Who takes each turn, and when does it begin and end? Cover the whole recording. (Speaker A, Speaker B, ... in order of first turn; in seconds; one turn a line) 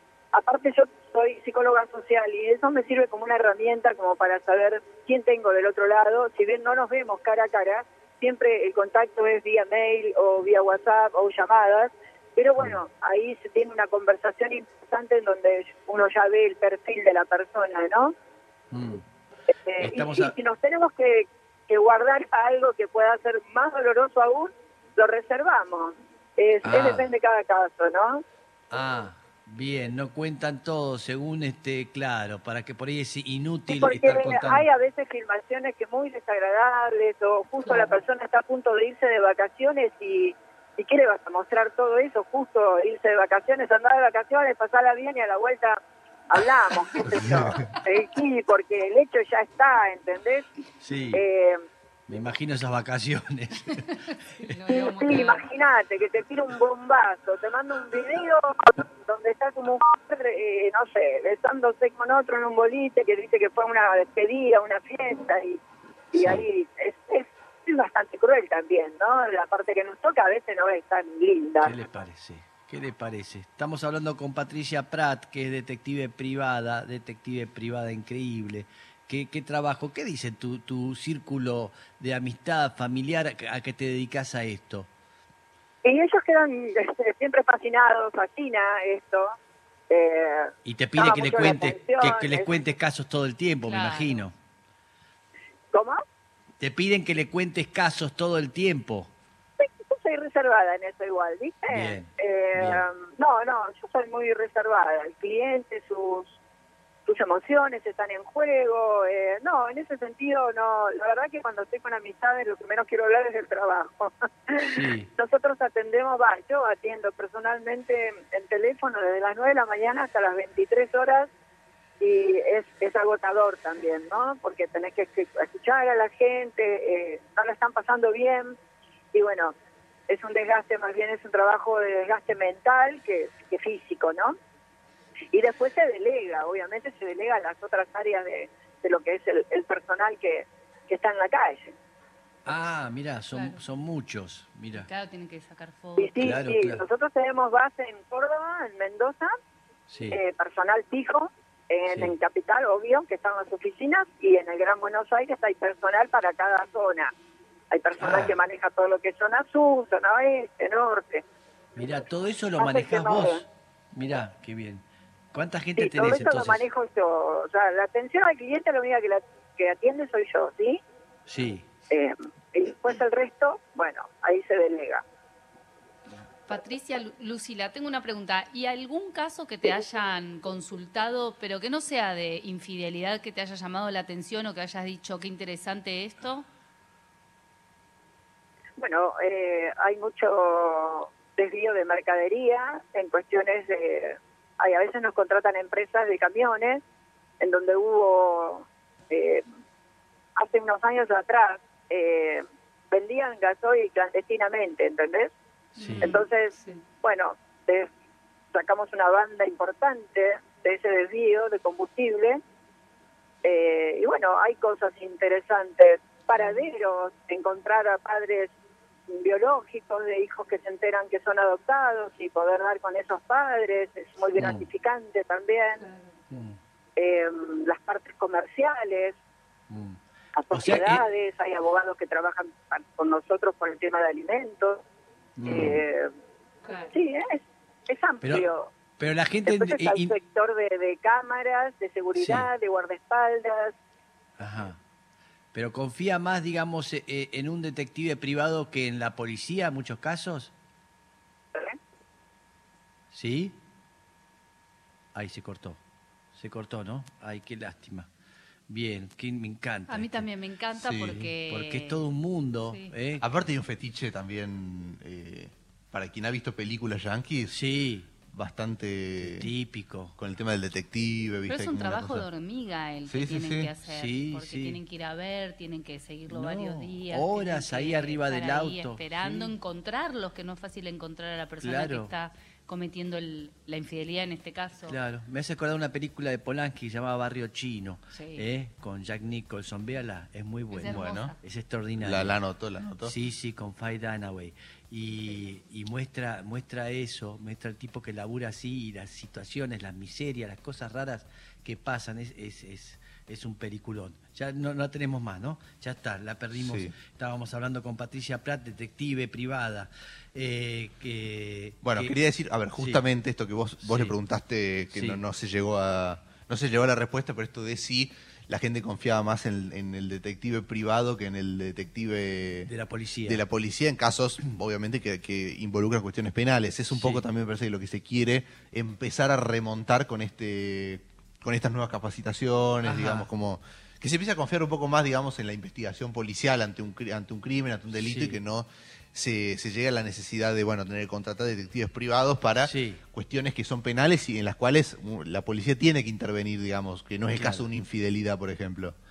Speaker A: 0.3-18.1
Speaker B: 18.7-19.0
Speaker A: 19.7-28.2
Speaker B: 19.8-20.3
Speaker B: 26.6-27.1
Speaker B: 28.7-34.7
Speaker A: 33.7-45.8
Speaker C: 37.6-38.0
Speaker A: 46.3-50.5
Speaker B: 50.8-51.2
Speaker A: 51.1-51.6
Speaker B: 52.1-54.5
Speaker C: 54.4-55.5
Speaker A: 54.7-65.6
Speaker B: 66.1-66.4
Speaker A: 66.1-71.8
Speaker B: 71.6-84.9
Speaker A: 85.8-89.3
Speaker A: 89.9-92.5
Speaker B: 90.7-94.3
Speaker C: 93.6-94.2
Speaker A: 95.7-96.0
Speaker B: 96.6-99.1
Speaker A: 99.6-106.4
Speaker B: 101.7-102.8
Speaker A: 107.1-121.3
Speaker B: 114.6-115.1
Speaker A: 122.0-128.6
Speaker A: 129.1-129.5
Speaker A: 130.1-134.3
Speaker A: 135.3-141.7
Speaker B: 142.5-144.9
Speaker C: 143.3-143.6
Speaker C: 144.8-146.3
Speaker A: 146.0-149.3
Speaker B: 146.2-146.8
Speaker B: 149.9-150.2
Speaker A: 150.1-157.1
Speaker B: 151.9-152.1
Speaker A: 157.7-161.2
Speaker B: 158.0-158.4
Speaker B: 161.8-166.7
Speaker A: 162.6-163.4
Speaker A: 165.8-170.8
Speaker B: 171.3-171.7
Speaker A: 171.9-175.0
Speaker C: 176.5-186.5
Speaker A: 188.8-196.8
Speaker A: 197.4-199.4
Speaker A: 200.4-205.3
Speaker C: 205.8-206.8
Speaker B: 205.8-206.2
Speaker A: 206.0-207.9
Speaker A: 208.5-212.4
Speaker A: 213.4-218.5
Speaker C: 216.4-216.6
Speaker A: 219.1-225.8
Speaker B: 224.4-224.7
Speaker C: 225.8-226.1
Speaker B: 226.3-226.6
Speaker A: 227.0-229.2
Speaker B: 229.7-230.0
Speaker A: 230.4-234.8
Speaker B: 230.5-231.0
Speaker B: 235.4-235.8
Speaker A: 235.4-236.1
Speaker C: 236.7-236.9
Speaker A: 236.9-238.7
Speaker B: 238.2-238.5
Speaker B: 239.0-240.2
Speaker A: 239.5-243.7
Speaker B: 242.2-242.5
Speaker B: 244.4-244.8
Speaker B: 245.5-250.5
Speaker B: 253.1-253.6
Speaker B: 255.2-255.8
Speaker B: 256.4-258.1
Speaker B: 258.7-260.3
Speaker C: 259.9-262.1
Speaker D: 260.8-261.2
Speaker B: 261.1-263.2
Speaker C: 262.7-262.9
Speaker D: 263.2-267.6
Speaker B: 267.5-268.1
Speaker D: 268.3-269.5
Speaker B: 269.2-270.1
Speaker D: 270.2-272.3
Speaker C: 271.5-285.0
Speaker D: 273.1-273.7
Speaker B: 273.9-274.8
Speaker B: 276.3-279.5
Speaker B: 281.6-282.1
Speaker B: 284.9-292.4
Speaker C: 288.1-288.4
Speaker C: 290.7-291.4
Speaker D: 290.9-291.3
Speaker D: 292.0-293.1
Speaker B: 293.0-312.1
Speaker D: 306.6-306.9
Speaker D: 311.8-322.7
Speaker B: 312.8-313.0
Speaker B: 313.8-314.1
Speaker B: 314.9-315.2
Speaker B: 322.7-323.4
Speaker D: 323.2-349.0
Speaker B: 326.9-327.2
Speaker B: 332.8-333.3
Speaker B: 337.9-338.4
Speaker B: 342.6-343.0
Speaker B: 347.4-347.7